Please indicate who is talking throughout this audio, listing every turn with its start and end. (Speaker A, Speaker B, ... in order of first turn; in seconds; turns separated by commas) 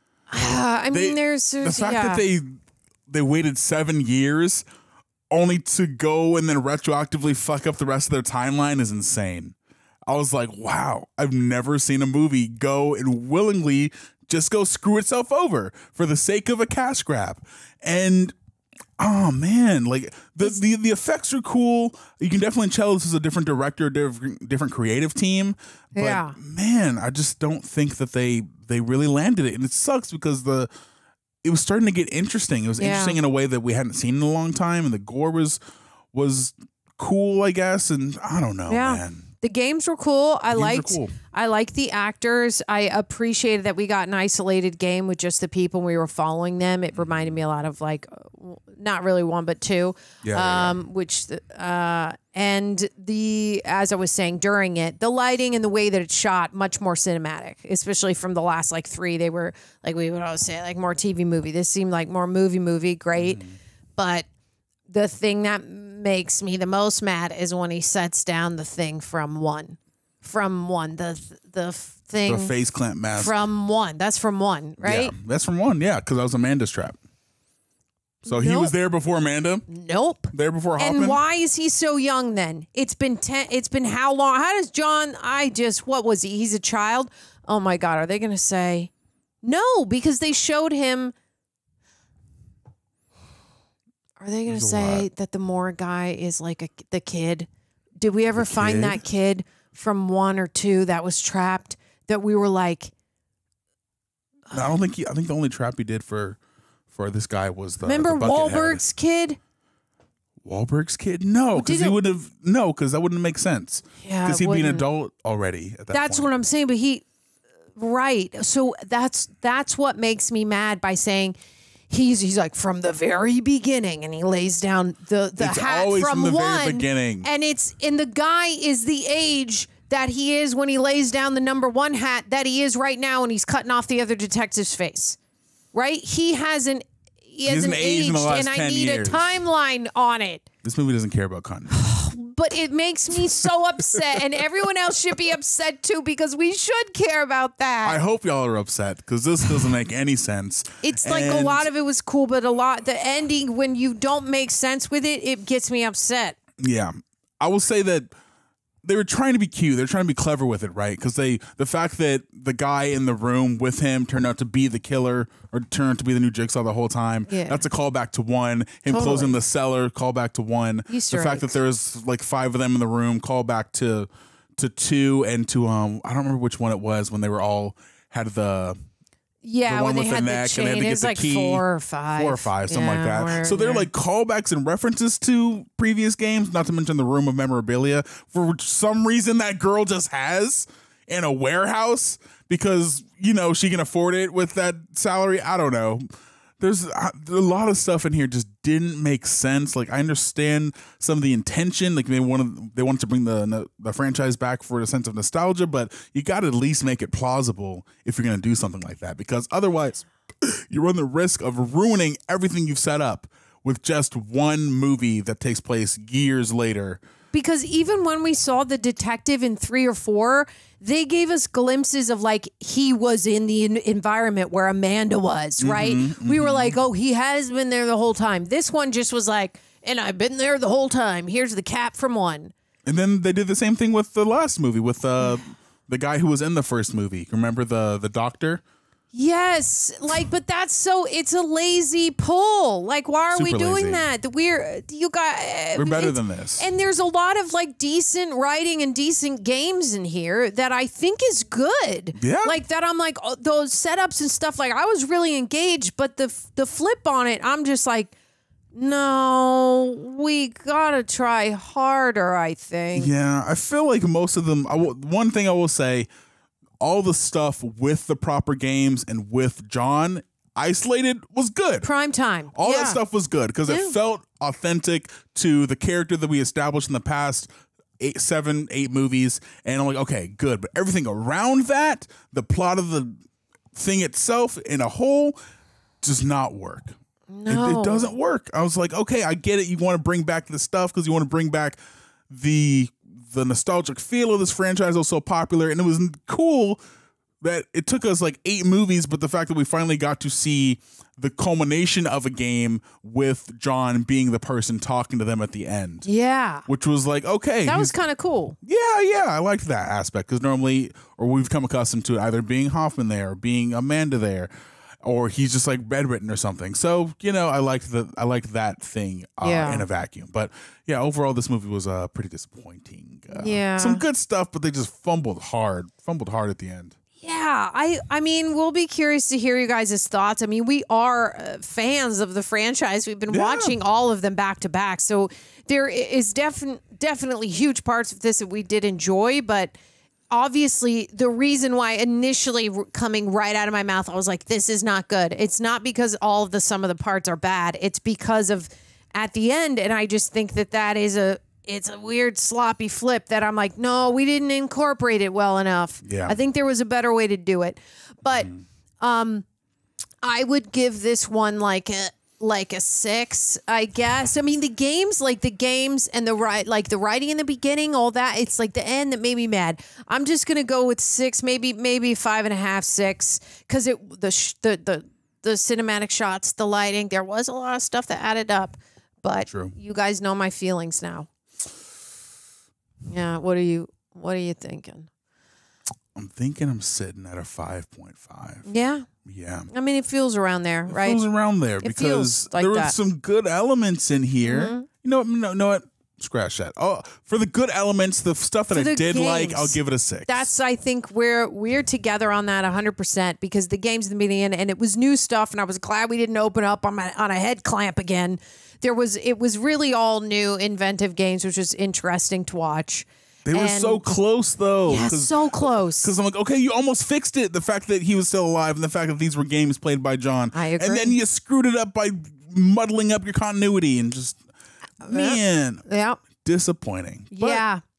Speaker A: 0.3-2.2, Speaker B: 0.4-4.7, Speaker B: 5.3-9.6, Speaker B: 10.1-18.4, Speaker B: 19.0-30.7, Speaker A: 25.9-26.4, Speaker B: 31.4-35.6, Speaker A: 32.8-33.2, Speaker B: 36.1-39.3, Speaker A: 38.7-63.4, Speaker B: 40.5-41.2, Speaker B: 46.9-47.4, Speaker B: 50.2-50.8, Speaker B: 63.1-63.6, Speaker A: 64.0-64.3, Speaker A: 64.9-72.5, Speaker B: 72.3-73.4, Speaker A: 73.2-75.1, Speaker B: 74.8-77.0, Speaker A: 78.2-78.7, Speaker B: 78.2-79.7, Speaker A: 79.7-88.9, Speaker B: 80.3-81.2, Speaker A: 89.4-91.1, Speaker A: 94.2-97.5, Speaker B: 94.5-95.1, Speaker A: 98.0-102.9, Speaker B: 98.3-99.0, Speaker B: 104.5-106.4, Speaker B: 106.9-108.8, Speaker A: 107.8-109.4, Speaker B: 110.4-116.3, Speaker A: 111.5-112.0, Speaker A: 114.0-114.9, Speaker A: 115.9-117.0, Speaker A: 117.8-121.4, Speaker A: 121.9-135.2, Speaker B: 125.4-127.3, Speaker A: 135.7-140.4, Speaker B: 137.5-139.4, Speaker B: 140.6-141.8, Speaker A: 141.7-148.0, Speaker B: 147.8-151.7, Speaker A: 150.8-156.4, Speaker B: 156.6-158.1, Speaker B: 158.8-178.8, Speaker A: 167.3-167.6, Speaker A: 168.9-169.4, Speaker A: 170.9-171.6, Speaker A: 179.4-183.9, Speaker B: 179.7-196.1, Speaker B: 196.6-217.0, Speaker A: 217.3-232.5, Speaker B: 225.6-226.8, Speaker B: 232.9-238.6, Speaker A: 239.1-258.1, Speaker B: 243.3-244.1, Speaker B: 245.8-246.7, Speaker B: 252.2-252.6, Speaker A: 258.7-263.1, Speaker B: 262.9-266.1, Speaker B: 266.8-271.9, Speaker A: 271.8-273.0, Speaker B: 272.6-283.2, Speaker A: 273.7-273.9, Speaker B: 283.7-285.4, Speaker B: 286.0-287.0, Speaker A: 287.3-288.1, Speaker B: 287.5-291.8, Speaker B: 292.3-296.8, Speaker B: 297.4-306.1, Speaker A: 306.1-306.7, Speaker B: 306.7-307.9, Speaker A: 307.7-308.6, Speaker B: 308.6-314.5, Speaker B: 315.0-327.0, Speaker A: 319.4-319.9, Speaker A: 323.3-324.0, Speaker A: 327.2-339.8, Speaker B: 333.3-333.8, Speaker A: 340.3-358.5, Speaker B: 356.0-356.4, Speaker B: 358.3-358.6, Speaker A: 359.0-359.4, Speaker A: 360.2-381.3, Speaker B: 379.5-379.7, Speaker A: 383.1-385.1, Speaker B: 386.1-388.7, Speaker A: 388.7-389.1, Speaker B: 389.2-389.7, Speaker A: 389.7-391.2, Speaker B: 390.9-400.5, Speaker A: 391.8-392.9, Speaker A: 394.4-394.9, Speaker A: 398.7-414.1, Speaker B: 413.4-424.4, Speaker A: 414.9-416.1, Speaker A: 420.5-421.2, Speaker B: 425.0-425.8, Speaker A: 425.0-426.2, Speaker B: 426.4-427.6, Speaker A: 427.3-427.8